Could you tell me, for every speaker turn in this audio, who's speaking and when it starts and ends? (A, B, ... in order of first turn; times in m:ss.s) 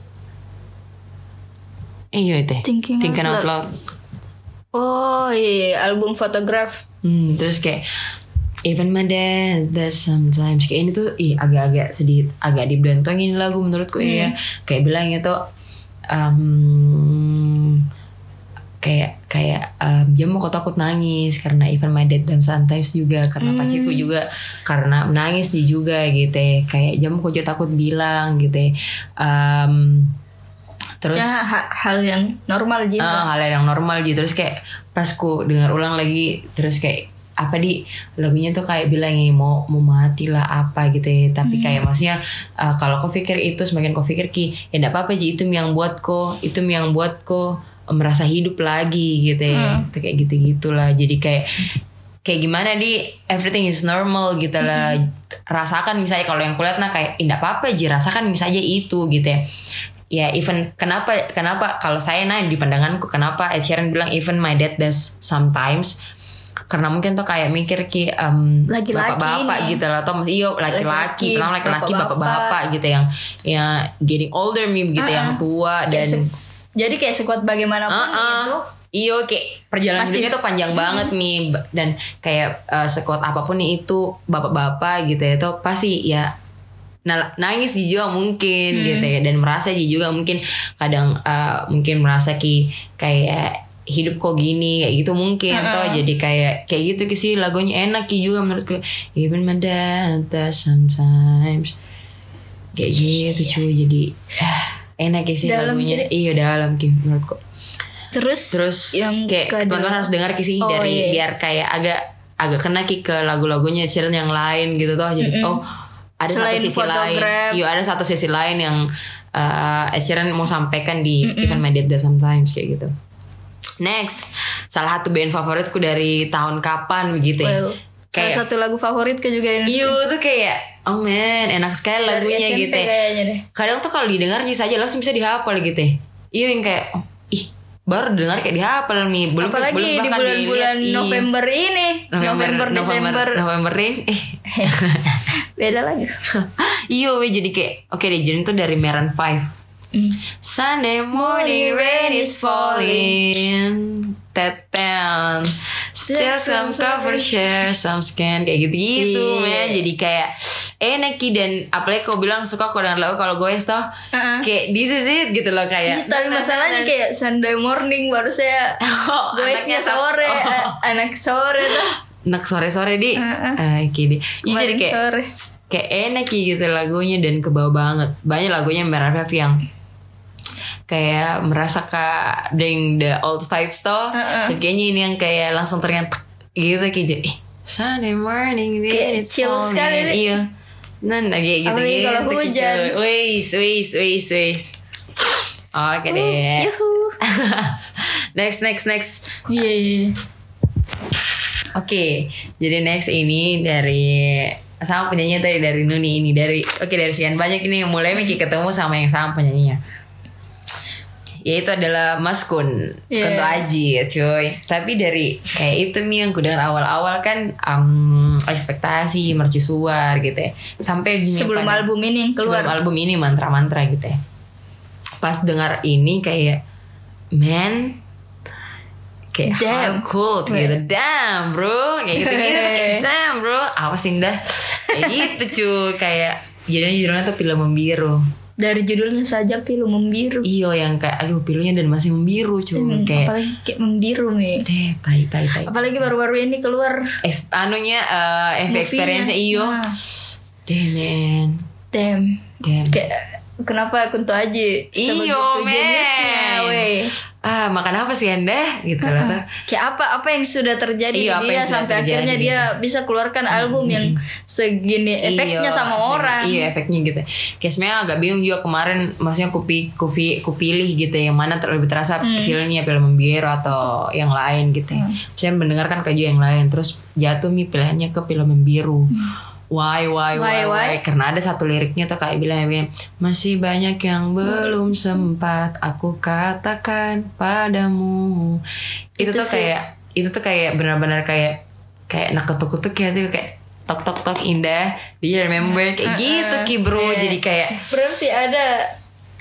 0:02.1-0:03.8 A
0:02.6-0:03.5 B
0:04.7-0:06.8 B
0:07.0-0:07.8 A
0:08.6-0:15.4 A
0:14.0-0:14.3 B
0:16.1-0:17.8 A
0:18.8-0:30.2 A
0:23.4-0:24.1 B
0:31.0-0:31.5 A
0:31.1-0:33.3 B
0:33.0-0:51.6 A
0:41.4-0:41.8 B
0:49.5-0:49.9 B
0:52.2-0:59.5 A
0:54.6-0:55.0 B
1:00.1-1:06.0 A
1:06.7-1:16.2 A
1:08.7-1:09.8 B
1:10.7-1:12.6 B
1:15.0-1:16.2 B
1:16.8-1:18.6 B
1:17.9-1:26.3 A
1:20.0-1:21.1 B
1:27.0-1:41.8 A
1:28.7-1:29.1 B
1:35.5-1:36.0 B
1:42.7-1:47.4 A
1:45.4-1:46.1 B
1:48.1-1:50.1 B
1:48.5-1:55.7 A
1:50.6-1:51.2 B
1:55.2-1:55.6 B
1:56.2-2:02.9 A
1:56.3-1:57.6 B
2:01.2-2:01.6 B
2:03.8-2:07.6 A
2:07.4-2:10.0 B
2:08.1-2:08.4 A
2:09.6-2:12.9 A
2:12.0-2:13.4 B
2:13.5-2:21.3 A
2:19.4-2:23.4 B
2:22.1-2:25.2 A
2:24.5-2:26.2 B
2:26.4-2:29.5 A
2:29.9-2:30.2 B
2:30.4-2:46.9 A
2:31.1-2:33.1 B
2:36.0-2:37.4 B
2:39.0-2:39.8 B
2:44.1-2:44.5 B
2:45.9-2:48.8 B
2:48.8-2:50.8 A
2:49.3-2:51.9 B
2:51.6-2:55.0 A
2:53.2-2:53.6 B
2:54.4-2:55.3 B
2:55.7-2:59.6 A
3:00.9-3:10.5 A
3:04.1-3:04.6 B
3:08.9-3:10.4 B
3:11.0-3:14.8 A
3:11.6-3:12.9 B
3:15.7-3:19.5 A
3:16.1-3:17.2 B
3:19.5-3:20.2 B
3:21.7-3:29.8 A
3:31.4-3:44.2 A
3:33.1-3:33.6 B
3:41.3-3:42.8 B
3:45.2-3:46.6 A
3:47.3-3:48.0 A
3:49.3-3:58.2 A
3:49.4-3:50.7 B
3:52.2-3:53.1 B
3:54.9-3:55.2 B
3:58.6-4:00.5 B
4:00.4-4:03.3 A
4:02.7-4:04.7 B
4:04.6-4:06.0 A
4:05.6-4:07.2 B
4:07.2-4:09.9 A
4:08.7-4:10.0 B
4:10.6-4:11.6 A
4:11.9-4:17.1 B
4:12.6-4:13.0 A
4:14.9-4:19.4 A
4:19.0-4:26.7 B
4:21.1-4:22.7 A
4:23.5-4:24.2 A
4:25.2-4:48.6 A
4:32.2-4:32.6 B
4:34.9-4:35.2 B
4:40.3-4:41.0 B
4:44.4-4:45.0 B
4:49.2-4:57.9 A
4:49.2-4:49.7 B
4:55.6-4:58.9 B